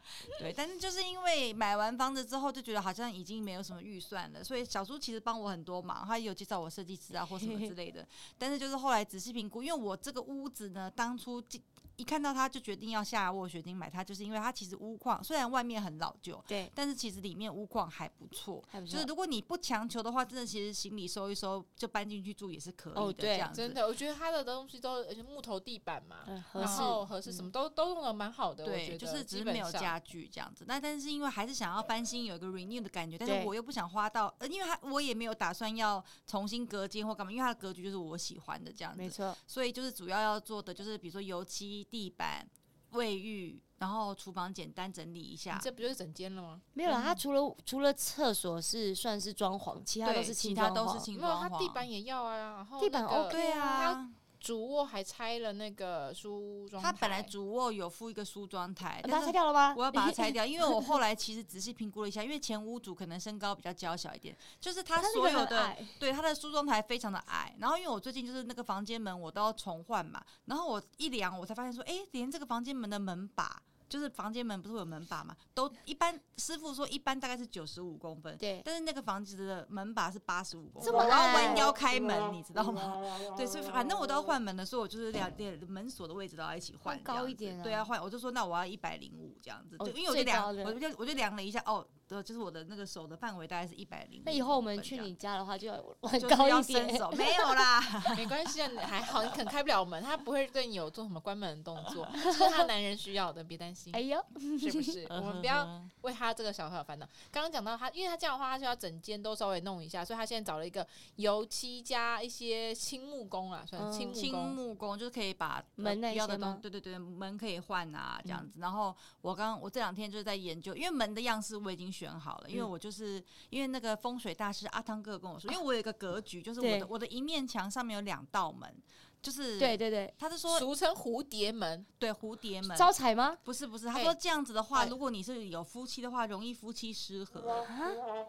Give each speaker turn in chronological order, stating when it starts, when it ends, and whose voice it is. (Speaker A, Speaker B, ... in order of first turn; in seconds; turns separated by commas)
Speaker A: 0.2-23.8, Speaker B: 18.7-19.1, Speaker B: 22.9-23.5, Speaker C: 23.5-29.9, Speaker B: 26.2-27.0, Speaker A: 26.6-27.0, Speaker A: 28.6-45.7, Speaker B: 33.2-33.5, Speaker B: 39.0-39.4, Speaker C: 45.5-46.7, Speaker B: 46.7-51.1, Speaker A: 46.8-47.2, Speaker A: 50.0-51.9, Speaker C: 51.1-57.3, Speaker B: 52.8-53.9, Speaker A: 53.3-54.1, Speaker A: 56.8-95.1, Speaker B: 59.0-60.9, Speaker B: 65.0-66.0, Speaker B: 78.4-78.6, Speaker B: 80.8-81.7, Speaker B: 86.8-87.9, Speaker B: 89.8-90.8, Speaker B: 94.2-97.7, Speaker A: 96.2-98.3, Speaker C: 98.1-104.0, Speaker B: 102.2-102.5, Speaker B: 103.9-104.9, Speaker C: 104.6-114.6, Speaker A: 105.1-105.9, Speaker B: 113.8-114.2, Speaker A: 114.1-130.7, Speaker B: 115.8-116.6, Speaker B: 126.6-126.9, Speaker B: 129.6-130.1, Speaker C: 130.5-131.9, Speaker A: 132.0-132.9, Speaker B: 132.7-133.4, Speaker A: 133.4-137.6, Speaker B: 137.7-138.0